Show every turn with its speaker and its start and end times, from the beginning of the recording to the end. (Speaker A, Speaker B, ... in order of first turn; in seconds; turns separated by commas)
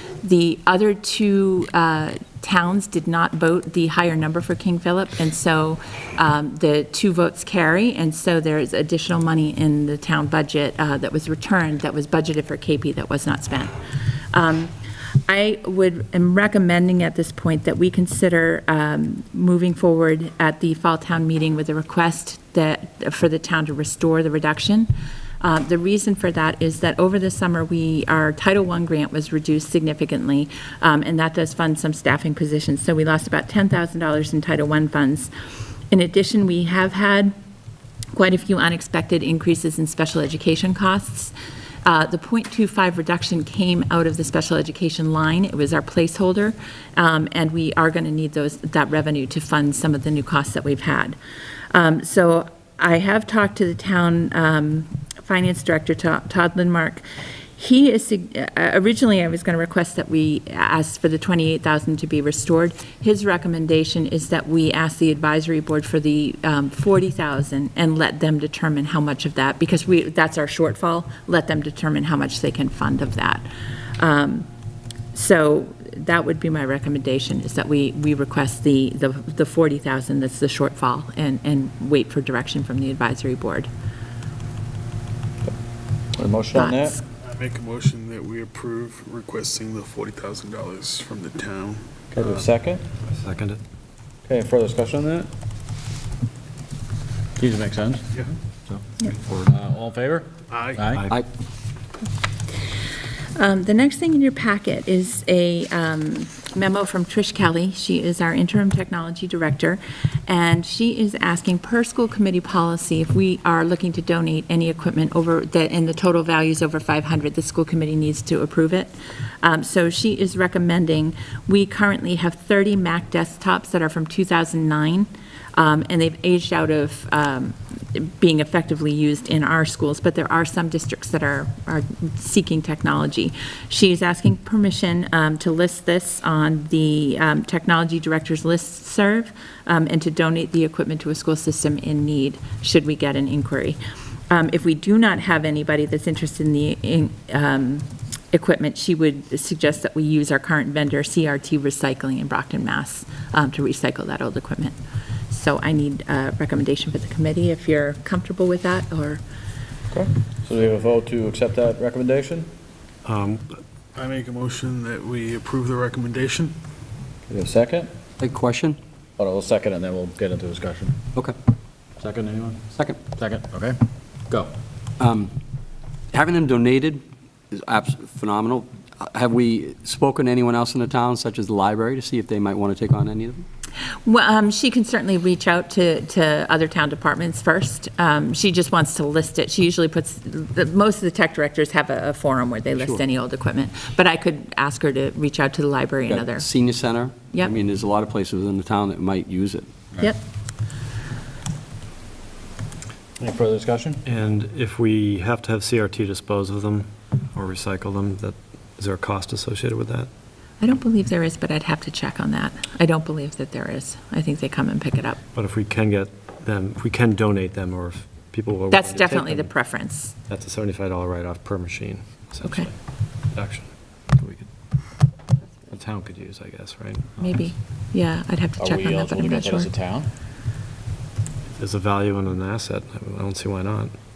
Speaker A: 0.2-13.7, Speaker A: 14.3-14.7, Speaker A: 15.3-35.3, Speaker A: 35.9-37.3, Speaker A: 38.1-41.3, Speaker A: 41.8-51.2, Speaker A: 51.7-57.0, Speaker A: 57.5-74.5, Speaker A: 75.1-83.7, Speaker B: 86.2-87.0, Speaker A: 86.5-87.0, Speaker C: 87.2-92.4, Speaker B: 92.1-92.8, Speaker D: 93.0-93.6, Speaker B: 94.3-95.3, Speaker B: 97.4-98.1, Speaker B: 98.7-101.0, Speaker C: 100.5-100.9, Speaker D: 100.9-101.2, Speaker A: 103.4-154.8, Speaker A: 155.3-159.2, Speaker B: 159.9-162.5, Speaker D: 163.0-163.6, Speaker C: 163.9-166.5, Speaker B: 167.3-167.9, Speaker E: 168.2-168.8, Speaker B: 169.2-171.0, Speaker B: 172.0-173.8, Speaker E: 172.7-173.0, Speaker E: 175.0-175.3, Speaker E: 176.1-183.4, Speaker A: 184.1-196.5, Speaker E: 196.1-199.7, Speaker B: 203.2-204.0, Speaker D: 204.0-210.1, Speaker A: 210.6-215.2, Speaker D: 215.3-219.5, Speaker A: 218.7-220.1, Speaker D: 220.3-224.5, Speaker A: 222.4-222.7, Speaker D: 225.7-227.5, Speaker A: 227.2-229.7, Speaker B: 228.6-230.1, Speaker D: 231.6-233.9